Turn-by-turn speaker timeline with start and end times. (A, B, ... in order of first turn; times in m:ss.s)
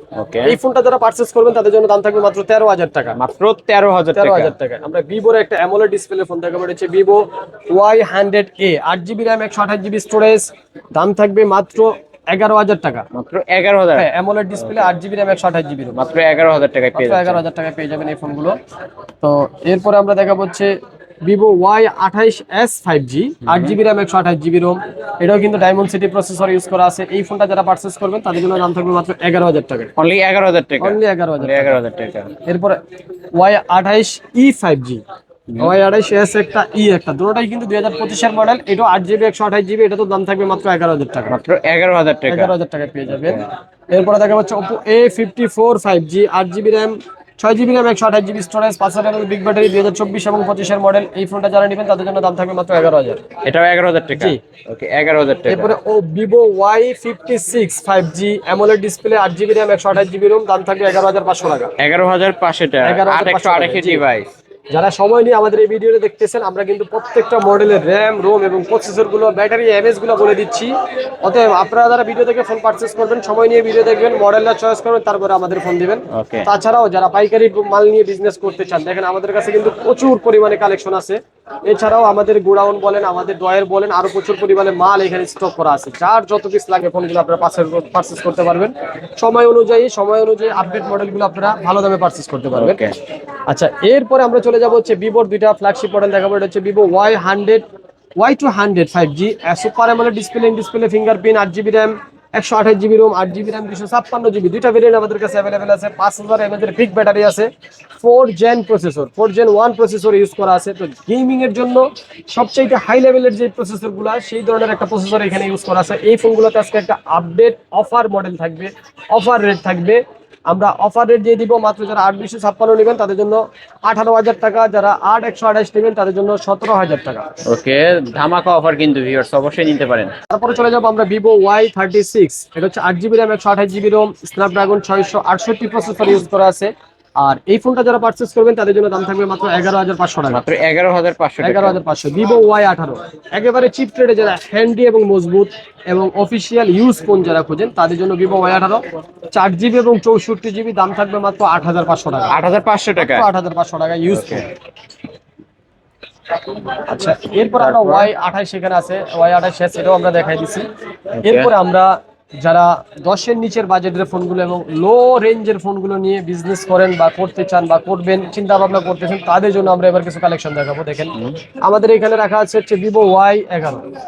0:00.2-0:00.6 A
0:00.4-0:03.2 B
0:03.2-0:04.5 A
0:04.1-0:13.0 B
0:13.1-0:14.1 A
0:14.0-0:16.0 B
0:15.9-0:17.4 A
0:16.9-0:18.6 B
0:19.2-0:29.9 B
0:23.5-0:23.7 A
0:30.0-0:32.3 A
0:30.8-0:31.8 B
0:32.4-0:32.8 B
0:33.3-0:35.0 B
0:35.6-0:41.3 B
0:41.3-0:42.5 A
0:42.3-0:53.2 B
0:43.1-0:43.4 A
0:53.4-0:55.7 A
0:55.5-1:01.7 B
1:01.8-1:04.3 A
1:02.8-1:04.0 B
1:04.7-1:10.7 B
1:11.2-1:32.8 B
1:16.1-1:16.4 A
1:32.5-1:33.0 A
1:33.5-1:37.6 B
1:38.2-2:07.3 B
2:07.4-2:10.1 A
2:10.3-2:20.5 B
2:20.3-2:21.8 A
2:21.4-2:32.3 B
2:32.3-2:33.3 A
2:33.0-2:34.5 B
2:34.1-2:34.4 A
2:36.8-2:40.7 B
2:37.6-2:38.1 A
2:41.2-2:41.5 A
2:41.2-2:53.8 B